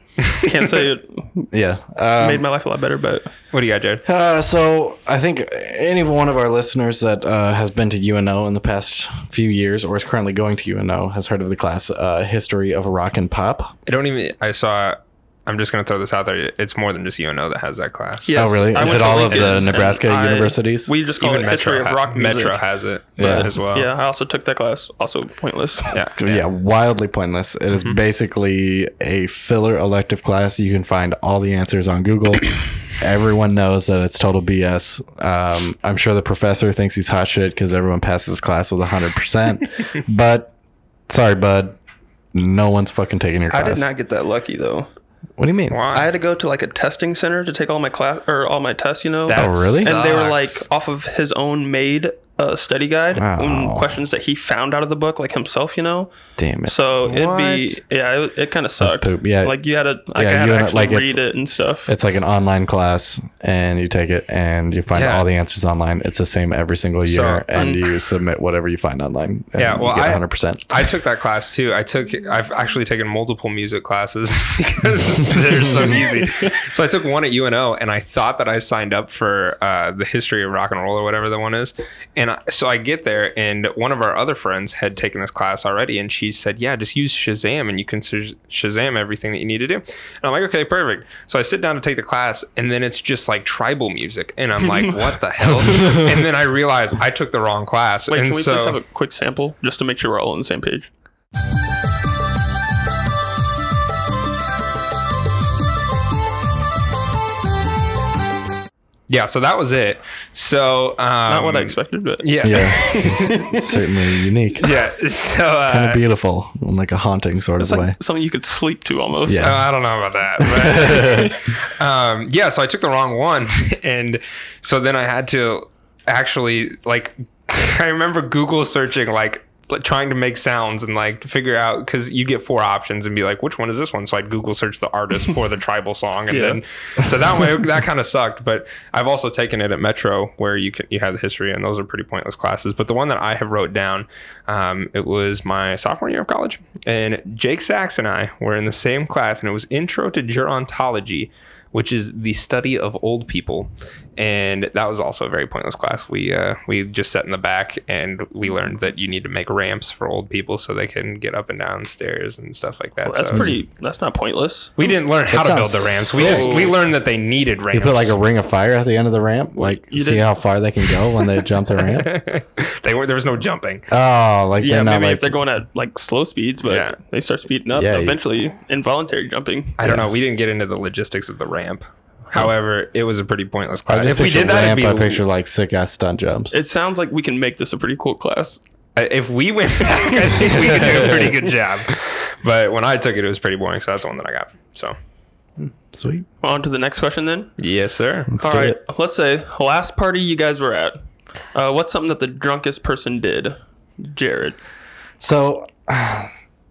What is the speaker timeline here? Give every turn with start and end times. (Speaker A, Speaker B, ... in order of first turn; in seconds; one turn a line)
Speaker A: 0.4-1.5
Speaker B: 1.5-2.5
Speaker A: 2.2-3.3
Speaker C: 3.5-4.0
Speaker B: 4.0-13.7
Speaker C: 13.9-19.7
Speaker A: 18.3-22.6
Speaker B: 18.3-20.9
Speaker C: 21.2-23.9
Speaker B: 23.2-23.5
Speaker A: 23.2-25.9
Speaker C: 25.9-26.4
Speaker B: 26.2-40.5
Speaker B: 41.1-41.8
Speaker B: 42.3-43.8
Speaker A: 43.5-44.9
Speaker B: 45.4-45.8
Speaker C: 45.7-46.1
Speaker A: 45.9-56.1
Speaker C: 49.3-50.6
Speaker B: 49.3-50.0
Speaker B: 53.1-54.0
Speaker B: 56.4-56.8
Speaker A: 56.6-61.9
Speaker C: 57.0-57.8
Speaker B: 58.8-59.6
Speaker B: 60.1-61.2
Speaker B: 61.9-70.9
Speaker C: 64.9-65.3
Speaker C: 67.0-67.5
Speaker A: 67.5-67.9
Speaker C: 69.6-98.8
Speaker B: 95.6-96.2
Speaker A: 98.1-100.9
Speaker C: 109.1-113.3
Speaker A: 111.3-113.8
Speaker B: 112.4-114.7
Speaker C: 114.6-116.0
Speaker B: 115.7-118.0
Speaker A: 117.6-119.6
Speaker B: 119.2-119.7
Speaker C: 119.4-163.5
Speaker B: 120.4-121.3
Speaker A: 136.3-136.6
Speaker A: 163.0-164.8
Speaker C: 164.8-168.2
Speaker B: 165.3-166.7
Speaker A: 166.1-166.8
Speaker B: 167.7-172.2
Speaker A: 169.5-170.3
Speaker C: 171.9-173.9
Speaker B: 173.9-175.4
Speaker A: 174.6-179.8
Speaker C: 176.7-176.9
Speaker B: 177.7-178.2
Speaker C: 179.8-185.2
Speaker B: 179.8-180.1
Speaker B: 183.9-186.6
Speaker A: 186.5-188.6
Speaker C: 188.9-194.9
Speaker B: 190.5-191.3
Speaker B: 195.9-196.2
Speaker A: 196.4-197.5
Speaker C: 197.6-198.4
Speaker B: 198.3-198.8
Speaker A: 198.4-201.0
Speaker A: 201.5-204.6
Speaker B: 205.2-206.3